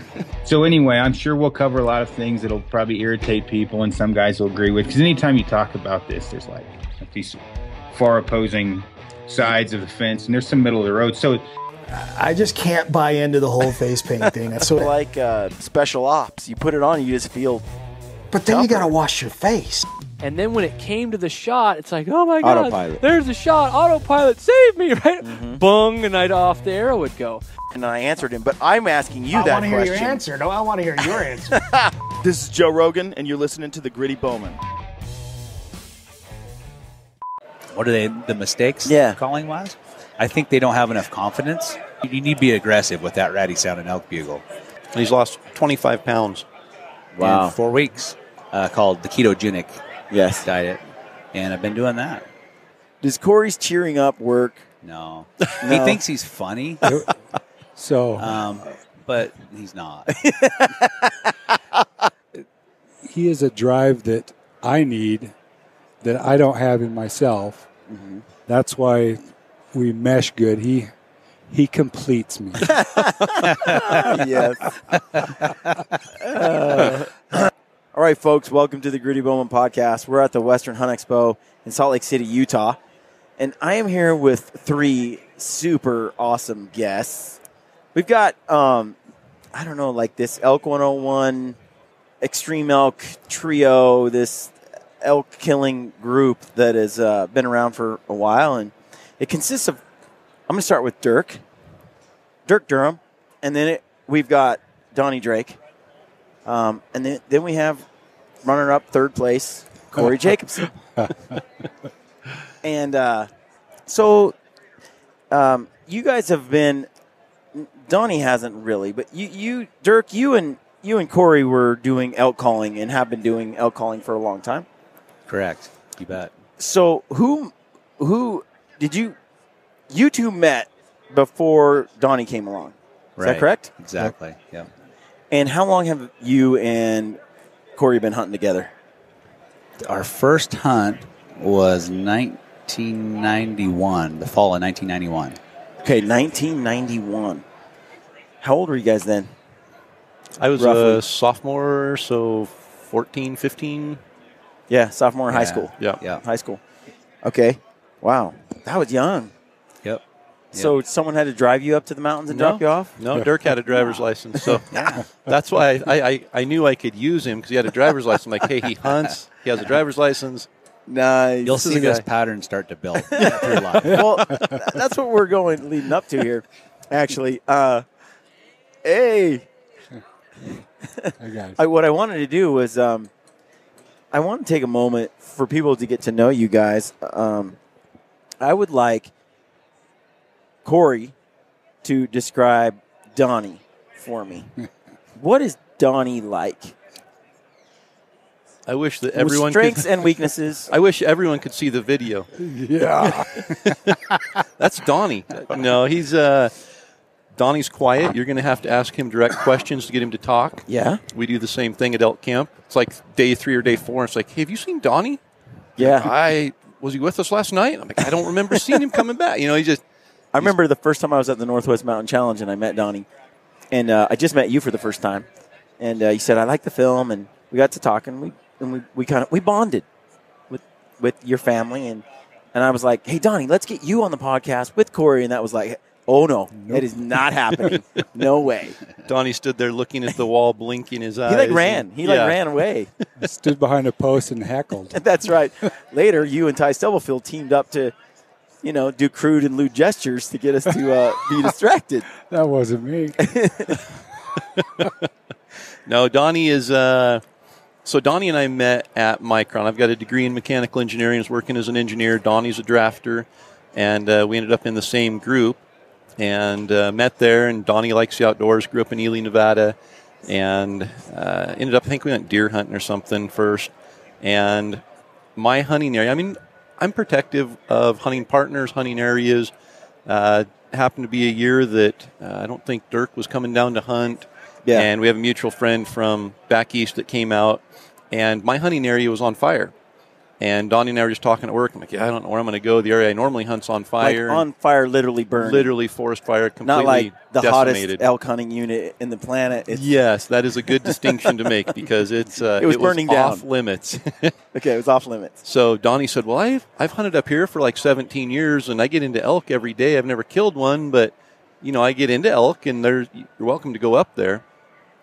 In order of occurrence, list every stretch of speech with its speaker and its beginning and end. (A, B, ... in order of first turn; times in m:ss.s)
0:00.4-0:07.4 A
0:07.9-0:11.4 A
0:12.0-0:14.9 B
0:14.6-0:17.6 C
0:18.3-0:19.9 B
0:18.4-0:18.9 C
0:20.2-0:27.4 D
0:22.4-0:23.0 C
0:25.2-0:25.6 C
0:27.7-0:30.2 C
0:29.3-0:31.6 B
0:31.5-0:34.6 C
0:37.7-0:44.4 E
0:38.8-0:39.2 C
0:44.9-0:46.5 F
0:47.1-0:47.6 C
0:47.2-0:49.8 E
0:50.1-0:50.5 C
0:50.4-0:50.8 E
0:51.3-0:52.3 E
0:53.0-0:54.7 C
0:54.8-0:56.8 E
0:55.6-0:56.0 C
0:56.9-0:57.2 G
0:57.8-0:58.5 G
0:58.2-1:00.2 E
1:00.1-1:01.8 C
1:03.0-1:05.3 G
1:06.0-1:07.7 G
1:07.9-1:08.2 C
1:08.5-1:09.2 G
1:09.7-1:10.9 G
1:11.5-1:12.9 G
1:12.6-1:14.8 C
1:13.5-1:14.2 G
1:16.2-1:22.8 C
1:23.4-1:27.4 C
1:28.0-1:29.0 C
1:29.5-1:31.6 C
1:32.2-1:39.8 C
1:40.5-1:41.4 C
1:42.5-1:45.6 C
1:46.4-1:47.9 C
1:48.4-1:50.7 C
1:52.6-1:53.3 C
1:53.9-1:54.4 C
1:55.3-1:56.9 C
1:57.5-2:04.7 C
2:05.3-2:06.3 E
2:06.6-2:09.2 C
2:09.9-2:13.7 C
2:13.2-2:14.7 E
2:15.3-2:17.2 C
2:17.8-2:18.7 C
2:19.8-2:25.4 E
2:25.8-2:27.4 C
2:28.4-2:29.3 C
2:30.4-2:34.0 F
2:30.6-2:31.0 C
2:34.7-2:36.6 C
2:35.3-2:36.2 E
2:37.2-2:39.3 C
2:39.8-2:40.7 E
2:40.5-2:43.0 C
2:42.3-2:50.5 F
2:44.7-2:45.0 E
2:50.9-2:51.9 C
2:51.4-2:54.0 E
2:51.7-2:52.0 F
2:53.2-2:57.8 C
2:58.8-2:59.5 C
3:00.8-3:03.1 C
3:01.2-3:01.6 G
3:04.1-3:07.6 C
3:08.4-3:09.1 C
3:10.6-3:11.2 C
3:11.8-3:14.5 C
3:15.2-3:16.8 C
3:18.7-3:20.1 F
3:19.2-3:20.7 C
3:20.7-3:22.3 F
3:22.4-3:23.7 G
3:23.0-3:24.0 F
3:24.6-3:26.6 F
3:27.4-3:35.2 F
3:30.7-3:31.0 C
3:35.8-3:36.1 C
3:35.8-3:39.8 F
3:40.3-3:43.1 C
3:43.7-3:45.3 C
3:45.8-3:49.9 C
3:50.5-3:58.8 C
3:56.5-3:56.9 G
3:59.1-4:02.4 F
4:01.3-4:02.9 C
4:03.2-4:05.0 G
4:04.9-4:08.0 C
4:08.6-4:12.1 C
4:12.3-4:13.2 G
4:13.2-4:13.8 C
4:14.6-4:14.9 F
4:15.9-4:17.2 F
4:17.8-4:25.6 F
4:26.2-4:33.7 F
4:34.2-4:34.8 F
4:35.4-4:39.5 F
4:40.1-4:49.7 F
4:44.6-4:44.9 C
4:50.4-4:54.4 F
4:54.0-4:55.7 C
4:55.4-4:58.0 F
4:56.6-4:59.9 C
4:59.7-5:04.3 F
5:00.8-5:01.1 C
5:02.6-5:03.4 C
5:04.5-5:05.4 C
5:05.4-5:14.4 F